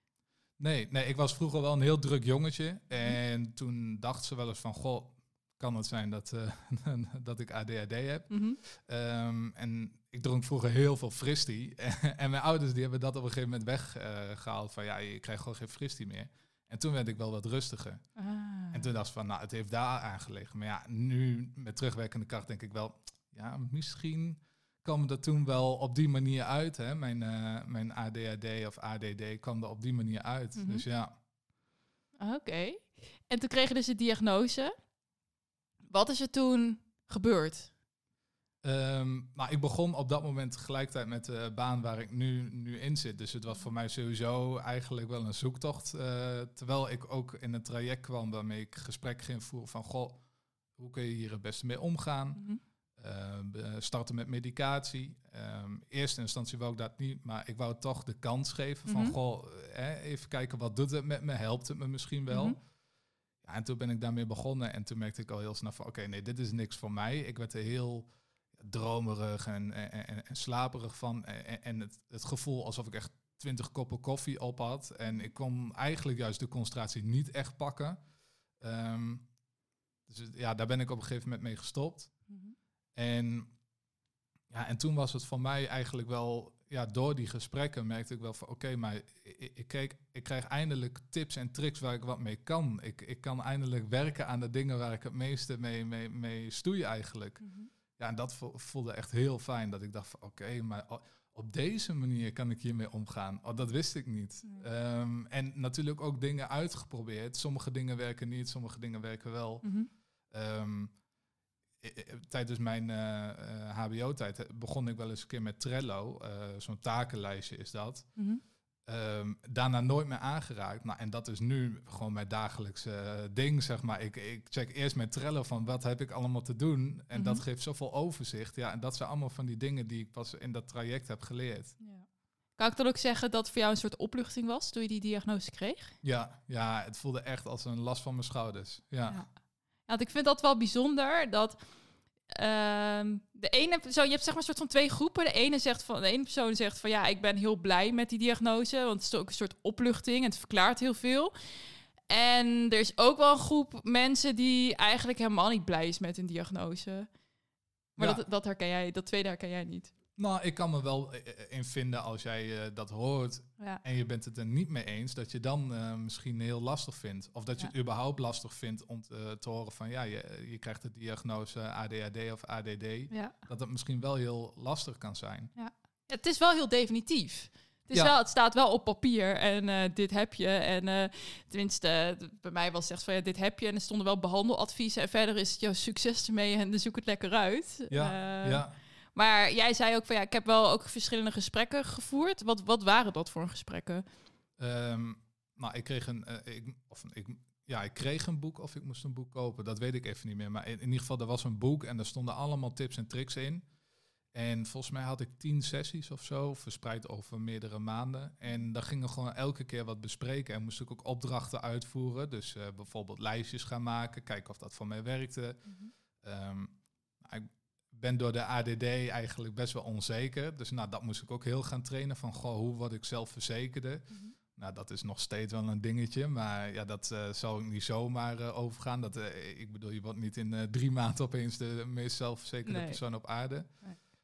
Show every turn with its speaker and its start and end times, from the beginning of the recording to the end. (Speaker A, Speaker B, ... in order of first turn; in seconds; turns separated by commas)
Speaker A: 0.6-18.0, Speaker B: 8.3-8.6, Speaker B: 18.2-18.9, Speaker A: 18.7-31.1, Speaker B: 30.6-30.9, Speaker B: 32.2-34.7, Speaker B: 35.9-37.7, Speaker A: 38.6-50.2, Speaker A: 50.8-52.4, Speaker A: 53.0-62.6, Speaker B: 58.9-59.1, Speaker B: 62.3-62.6, Speaker A: 63.4-78.0, Speaker A: 78.6-79.2, Speaker A: 80.1-82.1, Speaker B: 82.3-82.5, Speaker A: 83.0-83.5, Speaker A: 84.5-97.4, Speaker B: 97.4-97.7, Speaker A: 98.0-109.7, Speaker B: 109.6-109.9, Speaker A: 110.3-110.9, Speaker A: 111.8-118.1, Speaker A: 118.9-131.8, Speaker B: 127.1-127.4, Speaker B: 131.8-132.1, Speaker B: 132.6-135.9, Speaker A: 136.0-139.2, Speaker B: 139.9-141.6, Speaker B: 142.3-151.3, Speaker B: 152.1-157.1, Speaker B: 158.0-159.9, Speaker A: 160.2-175.5, Speaker B: 175.6-194.1, Speaker A: 187.9-188.8, Speaker A: 194.6-203.7, Speaker A: 204.3-215.7, Speaker B: 215.7-215.9, Speaker A: 216.2-233.7, Speaker B: 232.7-233.0